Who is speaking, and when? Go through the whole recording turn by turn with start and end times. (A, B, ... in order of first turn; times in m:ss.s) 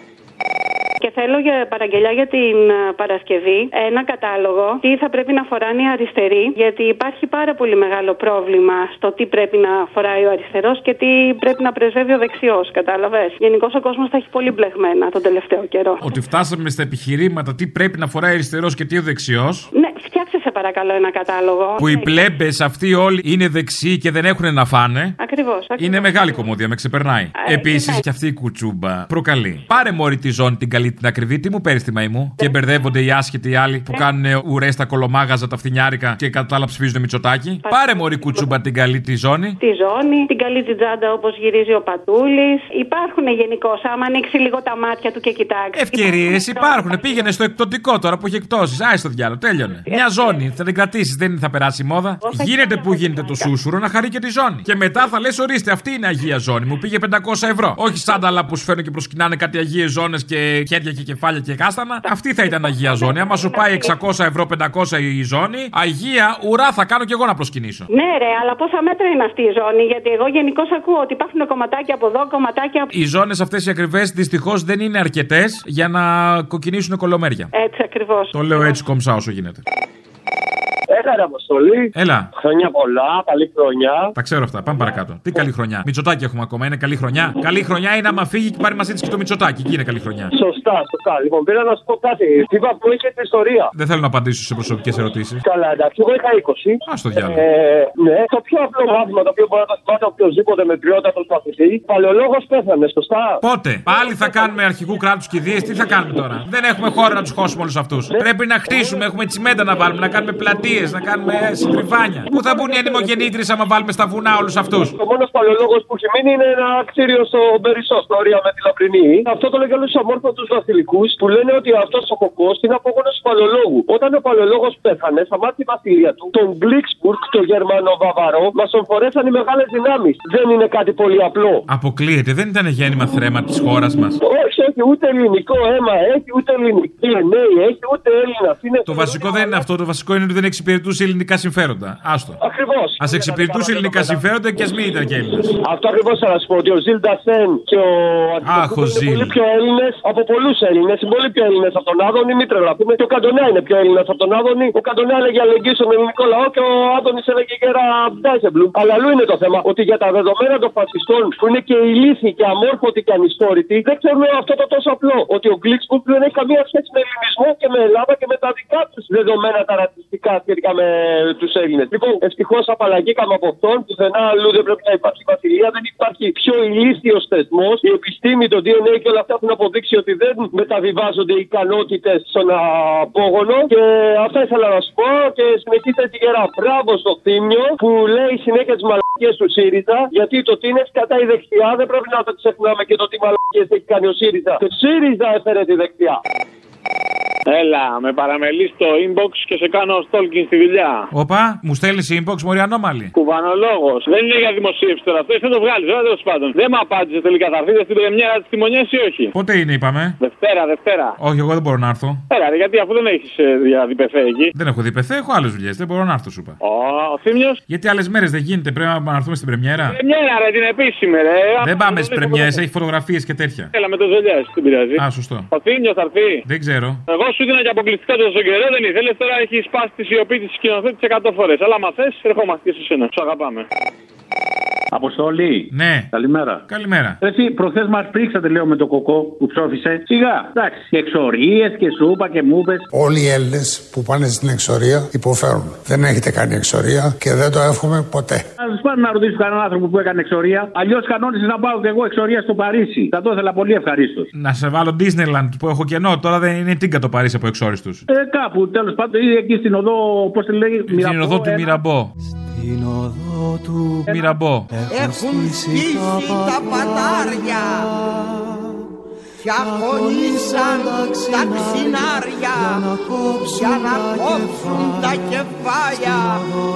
0:01.0-0:16.2 A
0:16.0-0:19.7 B
0:19.7-0:22.4 A
0:21.8-0:25.2 B
0:25.2-0:26.5 A
0:25.8-0:39.6 B
0:27.4-0:28.0 A
0:37.6-0:38.5 A
0:39.6-0:47.3 A
0:45.8-1:07.9 B
0:49.9-0:50.5 A
0:52.2-0:53.6 A
1:02.0-1:04.0 A
1:07.9-1:12.9 A
1:12.9-1:17.5 B
1:17.5-1:18.9 A
1:18.4-1:19.6 B
1:20.9-1:24.1 C
1:22.0-1:22.3 B
1:24.2-1:30.3 B
1:30.4-1:33.7 C
1:33.7-1:35.4 B
1:35.5-1:43.4 C
1:36.9-1:37.4 B
1:43.4-1:55.0 B
1:48.1-1:49.0 C
1:52.3-1:53.2 C
1:54.9-2:11.6 C
2:11.7-2:14.2 B
2:14.2-2:19.2 C
2:18.9-2:22.4 B
2:22.4-2:24.2 C
2:23.0-2:25.6 B
2:25.6-3:16.2 C
2:28.4-2:29.4 B
3:17.5-3:21.1 D
3:21.1-3:23.1 B
3:23.2-3:29.3 D
3:29.3-3:30.2 B
3:30.2-3:31.2 D
3:31.2-3:32.2 B
3:32.3-3:34.5 D
3:34.6-3:36.6 B
3:36.6-3:37.6 D
3:37.7-3:40.0 B
3:39.9-3:42.5 D
3:41.6-3:43.7 B
3:43.7-3:46.4 D
3:45.0-3:45.5 B
3:46.4-3:47.0 B
3:47.1-3:53.6 D
3:54.9-3:56.6 E
3:55.7-3:56.1 B
3:56.7-3:57.2 B
3:57.2-4:02.9 E
4:02.9-4:08.5 F
4:08.6-4:14.3 E
4:14.4-4:18.0 B
4:18.1-4:21.8 E
4:20.9-4:22.1 B
4:24.1-4:24.7 B
4:24.9-4:27.9 G
4:29.4-4:32.8 G
4:33.5-4:36.4 G